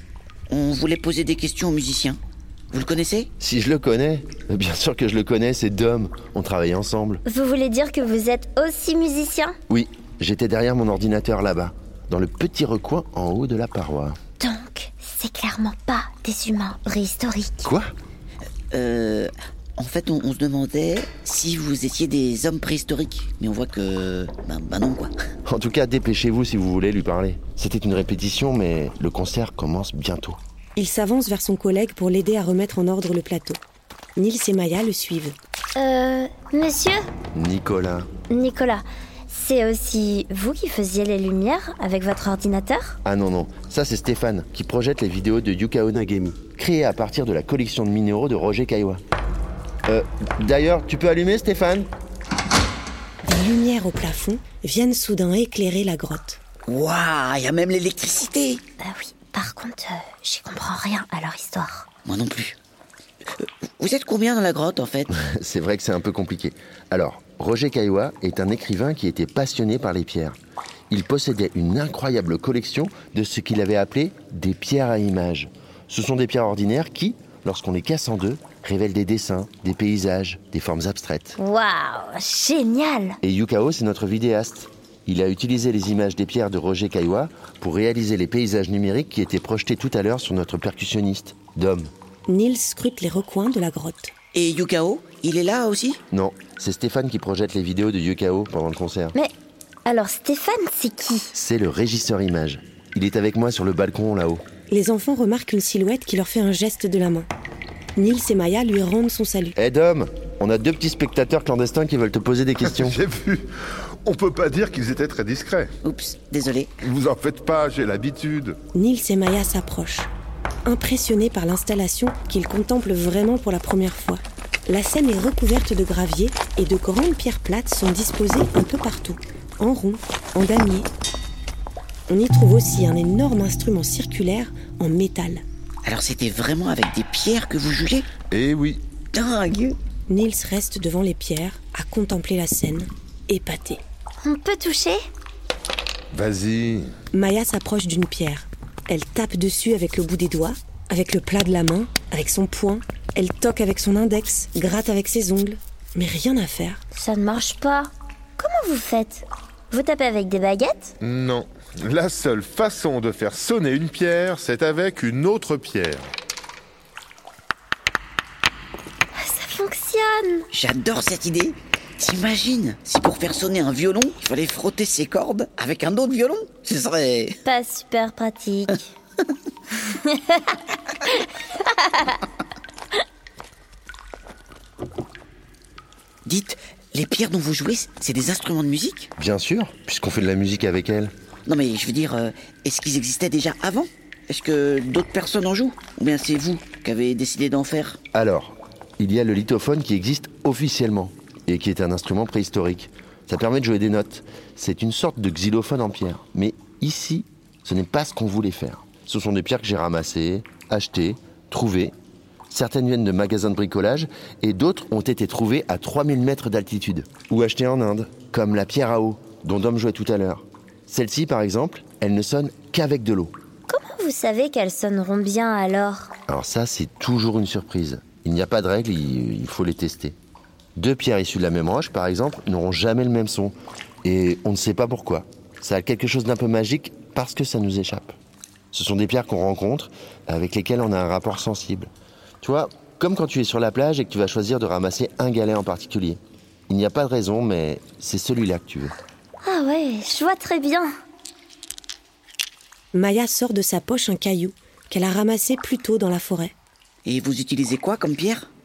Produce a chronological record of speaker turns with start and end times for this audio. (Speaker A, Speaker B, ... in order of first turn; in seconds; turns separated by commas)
Speaker A: 0.5-2.2, Speaker A: 2.7-3.3, Speaker B: 3.4-7.2, Speaker C: 7.2-9.6, Speaker B: 9.7-14.2, Speaker C: 14.4-17.7, Speaker B: 17.6-17.9, Speaker A: 18.7-25.1, Speaker B: 25.4-30.4, Speaker D: 30.8-33.6, Speaker D: 34.1-35.4, Speaker C: 35.8-37.0, Speaker B: 37.3-38.1, Speaker C: 38.3-43.0, Speaker B: 43.0-49.0, Speaker B: 49.9-51.9, Speaker D: 53.2-56.4, Speaker A: 56.7-58.6, Speaker C: 58.8-61.9, Speaker A: 62.0-62.6, Speaker A: 63.4-65.1, Speaker B: 65.1-70.4, Speaker B: 70.9-81.4, Speaker C: 81.4-83.2, Speaker B: 83.2-91.9, Speaker D: 92.3-94.1, Speaker A: 94.3-96.0, Speaker B: 96.1-99.2, Speaker C: 99.8-101.3, Speaker B: 101.3-104.4, Speaker D: 104.7-107.3, Speaker D: 108.0-109.5, Speaker B: 109.5-113.0, Speaker E: 112.7-113.5, Speaker E: 114.0-115.7, Speaker A: 115.8-116.7, Speaker E: 116.8-118.6, Speaker D: 118.7-120.1, Speaker D: 120.6-130.9, Speaker D: 132.1-135.4, Speaker A: 135.8-138.1, Speaker E: 138.3-138.8, Speaker A: 139.1-139.8, Speaker D: 140.1-143.8, Speaker C: 144.2-145.0, Speaker E: 146.1-146.9, Speaker D: 147.1-156.8, Speaker C: 156.9-160.9, Speaker E: 161.0-166.1, Speaker C: 169.2-170.5, Speaker A: 170.5-177.4, Speaker C: 177.4-178.9, Speaker C: 179.9-180.4, Speaker C: 181.6-182.1, Speaker A: 186.2-189.1, Speaker B: 189.2-191.1, Speaker A: 191.5-198.0, Speaker B: 198.1-211.9, Speaker B: 212.5-223.3, Speaker C: 223.7-226.1, Speaker B: 226.3-230.2, Speaker B: 230.8-238.1, Speaker B: 238.7-241.9, Speaker B: 242.4-248.9, Speaker C: 249.4-250.9, Speaker D: 252.9-256.5, Speaker A: 257.0-258.5